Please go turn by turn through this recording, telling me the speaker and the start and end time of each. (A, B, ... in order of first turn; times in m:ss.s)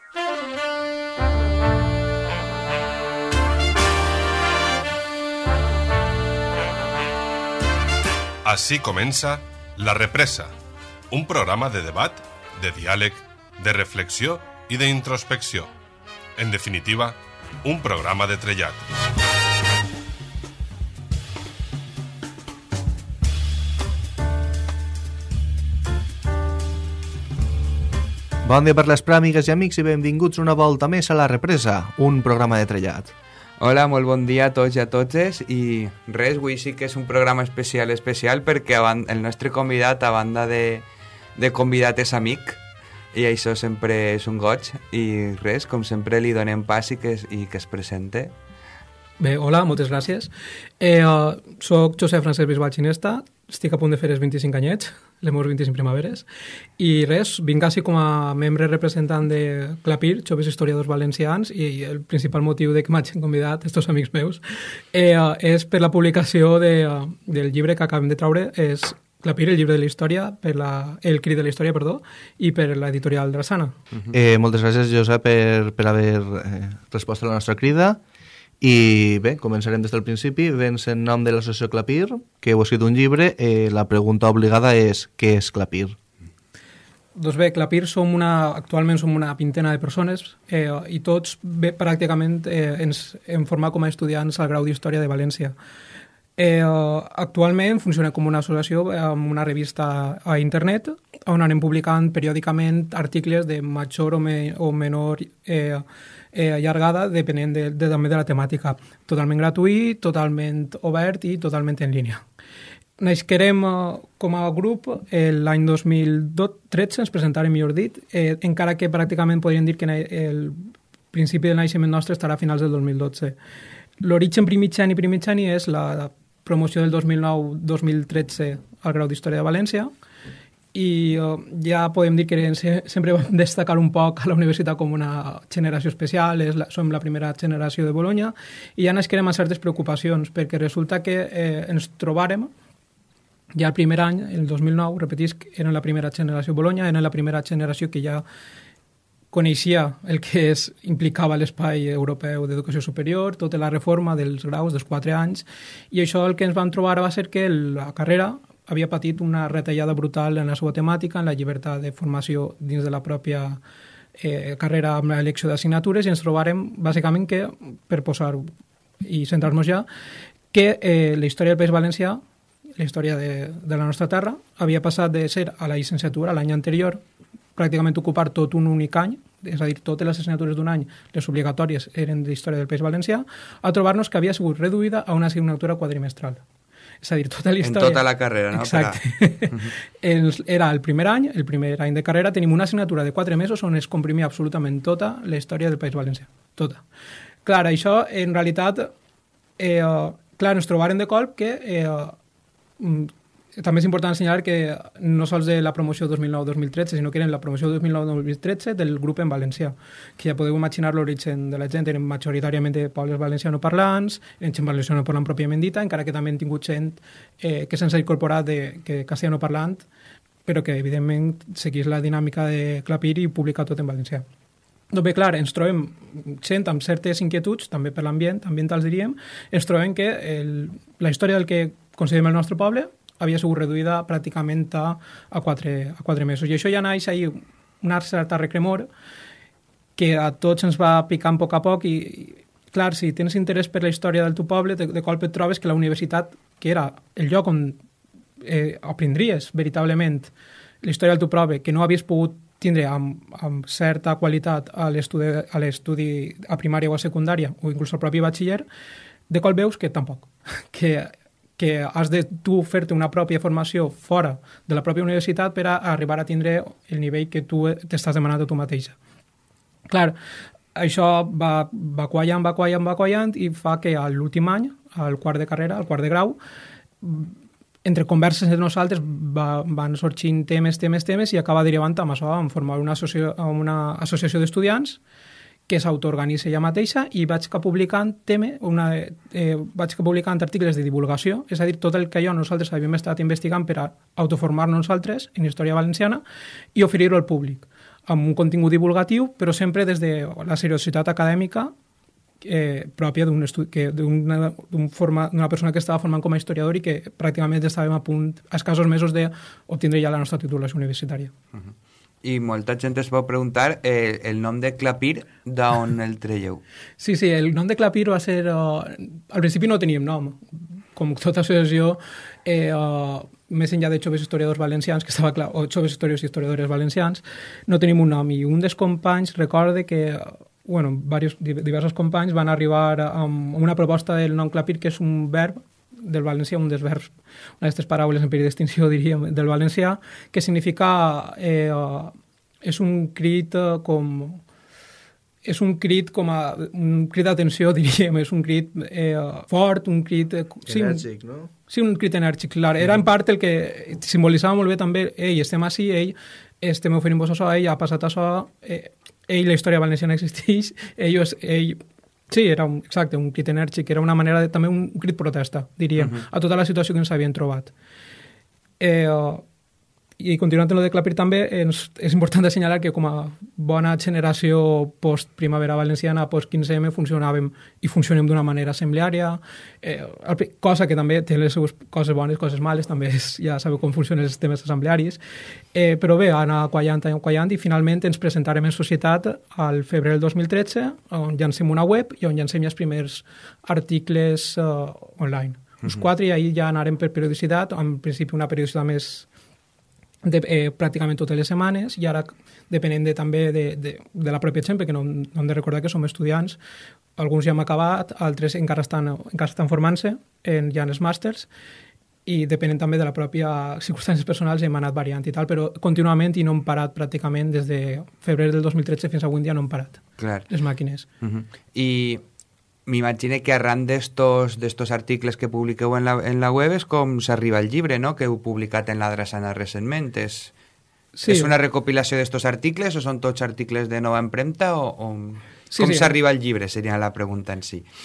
0:08.4-0:10.5 A
0:11.1-0:15.7 A
0:16.4-0:18.9 A
0:28.4-0:33.1 B
0:33.6-0:42.6 C
0:43.1-0:48.3 C
0:49.2-0:56.3 D
0:56.8-1:13.8 D
1:14.1-1:18.0 B
1:18.6-1:26.0 B
1:27.2-1:35.6 D
1:36.4-1:52.2 D
1:53.0-2:03.4 D
2:04.0-2:09.9 D
2:10.7-2:22.5 D
2:23.6-2:28.2 D
2:29.3-2:43.6 D
2:44.2-2:48.5 D
2:49.0-2:49.9 D
2:50.5-2:52.2 D
2:52.8-2:57.0 D
2:57.6-3:06.4 D
3:07.0-3:16.8 D
3:07.6-3:09.7 C
3:17.4-3:18.9 D
3:19.6-3:22.2 D
3:22.8-3:39.9 D
3:40.4-3:44.2 D
3:44.9-3:58.9 D
4:00.0-4:07.8 D
4:08.4-4:10.3 D
4:10.8-4:18.6 D
4:19.3-4:29.0 D
4:29.9-4:30.2 D
4:30.8-4:36.4 D
4:37.0-4:45.0 D
4:45.7-4:56.2 D
4:56.8-5:01.7 D
5:02.4-5:11.3 D
5:12.2-5:16.6 C
5:17.0-5:44.4 D
5:45.4-5:51.0 D
5:50.7-5:51.5 B
5:51.7-6:07.7 D
6:08.8-6:09.4 D
6:10.2-6:25.2 D
6:25.7-6:39.3 D
6:40.2-6:46.6 D
6:47.2-6:51.5 D
6:52.3-7:01.1 D
7:00.2-7:00.5 C
7:01.2-7:02.2 C
7:02.9-7:10.5 C
7:11.1-7:11.5 D
7:11.2-7:17.9 C
7:15.7-7:16.1 D